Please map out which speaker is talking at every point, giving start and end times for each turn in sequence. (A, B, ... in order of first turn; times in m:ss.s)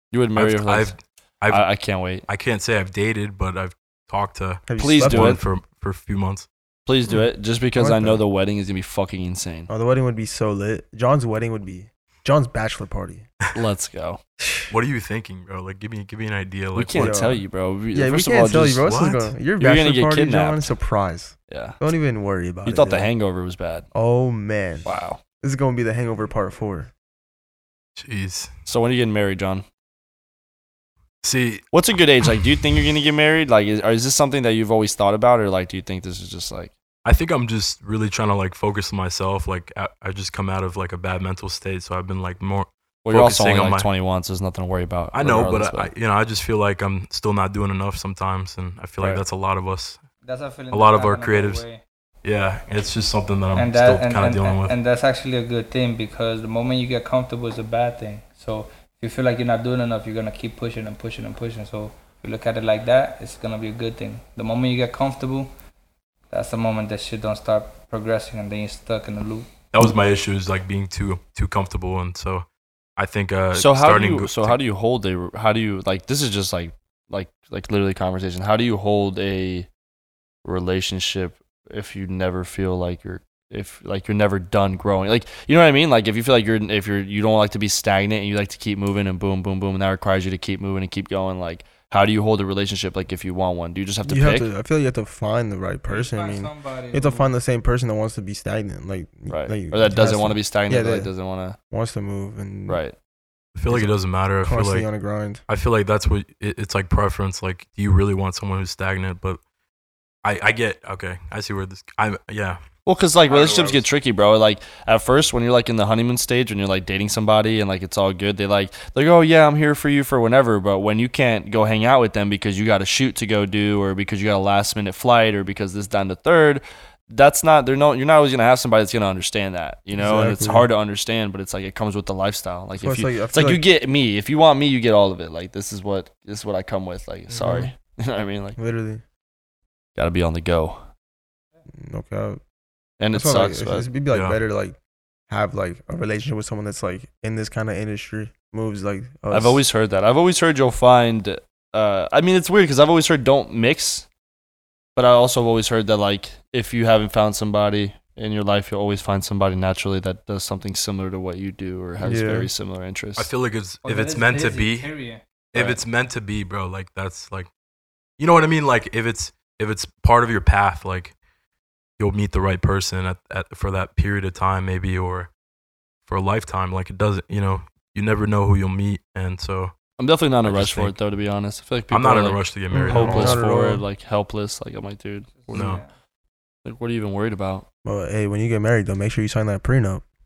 0:00.1-0:00.9 A
0:00.4-0:01.6 B
0:01.5-0:02.2 A
0:02.2-0:06.5 B
0:04.7-0:05.4 C
0:04.8-0:05.4 A
0:06.8-0:09.7 A
0:07.8-0:08.2 C
0:09.7-0:13.3 C
0:13.5-0:14.2 A
0:14.4-0:14.7 C
0:14.7-0:17.2 B
0:16.7-0:18.8 A
0:16.9-0:23.1 C
0:18.8-0:19.3 B
0:19.6-0:20.7 A
0:21.5-0:21.8 A
0:22.6-0:23.9 A
0:23.9-0:26.9 C
0:24.8-0:25.2 A
0:28.0-0:28.5 B
0:28.6-0:29.6 A
0:31.2-0:31.8 B
0:31.7-0:36.7 A
0:37.0-0:43.9 B
0:43.0-0:45.9 A
0:45.1-0:50.0 B
0:49.0-0:49.2 A
0:50.2-0:51.8 D
0:50.7-0:51.6 B
0:52.2-0:54.7 B
0:53.5-1:05.5 D
1:06.3-1:09.5 D
1:09.7-1:12.4 B
1:13.0-1:14.6 B
1:13.5-1:19.7 A
1:20.4-1:34.5 A
1:34.0-1:41.1 C
1:35.9-1:37.3 D
1:39.3-1:41.6 A
1:41.7-1:42.8 C
1:42.7-1:43.0 A
1:43.5-1:44.9 B
1:43.7-1:45.4 C
1:45.5-1:49.4 B
1:50.2-1:52.6 B
1:52.8-2:18.6 A
1:53.3-1:53.8 B
2:09.9-2:10.7 C
2:12.8-2:13.6 C
2:17.3-2:17.7 C
2:18.6-2:19.0 C
2:20.0-2:20.8 A
2:21.7-2:22.4 C
2:23.0-2:23.9 A
2:23.1-2:24.8 C
2:24.1-2:24.4 B
2:25.3-2:29.6 C
2:29.3-2:34.1 A
2:35.0-2:43.3 A
2:42.0-2:42.5 C
2:43.2-2:44.9 B
2:43.8-2:45.2 D
2:45.5-2:47.5 B
2:45.5-2:45.8 A
2:48.2-2:51.1 B
2:52.0-2:55.3 B
2:56.0-2:59.7 B
3:00.0-3:05.8 A
3:00.4-3:01.0 B
3:01.9-3:03.4 B
3:02.7-3:03.8 C
3:05.4-3:05.9 D
3:05.5-3:05.8 B
3:06.6-3:07.6 A
3:07.8-3:10.0 C